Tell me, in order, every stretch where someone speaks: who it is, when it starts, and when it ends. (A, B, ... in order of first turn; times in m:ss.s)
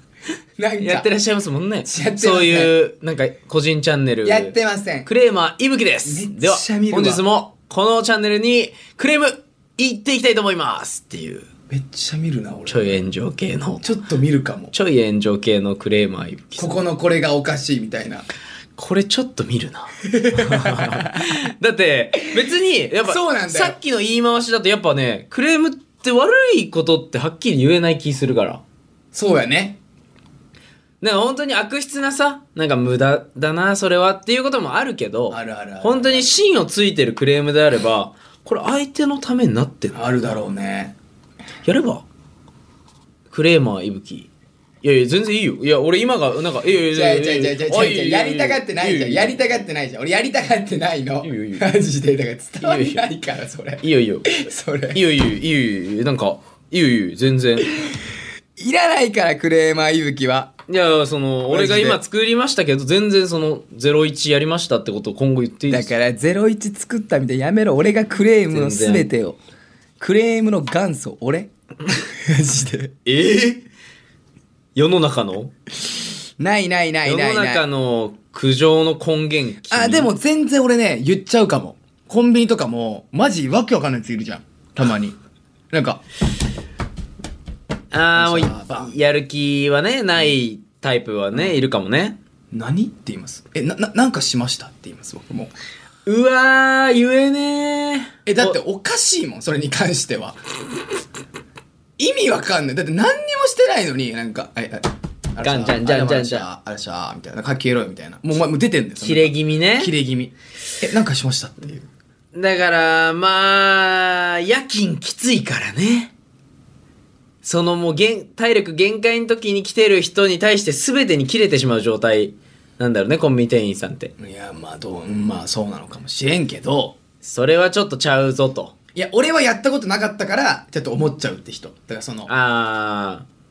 0:00.6-0:01.1 A
0:00.8-0:04.5 B
0:01.9-0:02.7 A
0:04.2-0:05.1 A
0:05.1-0:11.5 B
0:06.0-0:07.2 A
0:11.7-0:13.0 A
0:12.7-0:13.9 B
0:13.8-0:14.7 A
0:14.7-0:16.8 B
0:16.6-0:18.3 A
0:18.8-0:28.6 B
0:20.0-0:21.2 A
0:23.0-0:23.8 A
0:29.1-0:29.8 A
0:31.0-0:40.4 B
0:35.3-0:36.3 A
0:39.9-0:41.0 A
0:41.6-0:42.0 B
0:43.3-0:44.3 B
0:44.8-0:49.4 B
0:46.9-0:55.0 A
0:51.2-0:51.7 B
0:52.6-0:53.0 B
0:53.8-0:57.7 B
0:58.6-1:00.5 A
1:00.7-1:05.9 B
1:01.5-1:02.0 A
1:05.7-1:09.4 A
1:08.5-1:09.1 B
1:10.0-1:11.5 A
1:12.1-1:13.0 A
1:13.1-1:13.6 B
1:14.8-1:15.5 B
1:16.4-1:17.6 A
1:17.0-1:20.1 B
1:19.7-1:25.2 A
1:25.7-1:26.0 A
1:27.9-1:32.2 B
1:28.2-1:28.9 A
1:32.5-1:35.5 A
1:36.0-1:38.6 B
1:38.3-1:40.4 A
1:42.0-1:51.9 A
1:45.4-1:46.5 B
1:49.0-1:49.9 B
1:52.3-1:56.1 B
1:57.4-2:04.1 B
2:04.2-2:07.0 A
2:07.2-2:08.7 B
2:09.0-2:12.3 A
2:12.3-2:13.2 B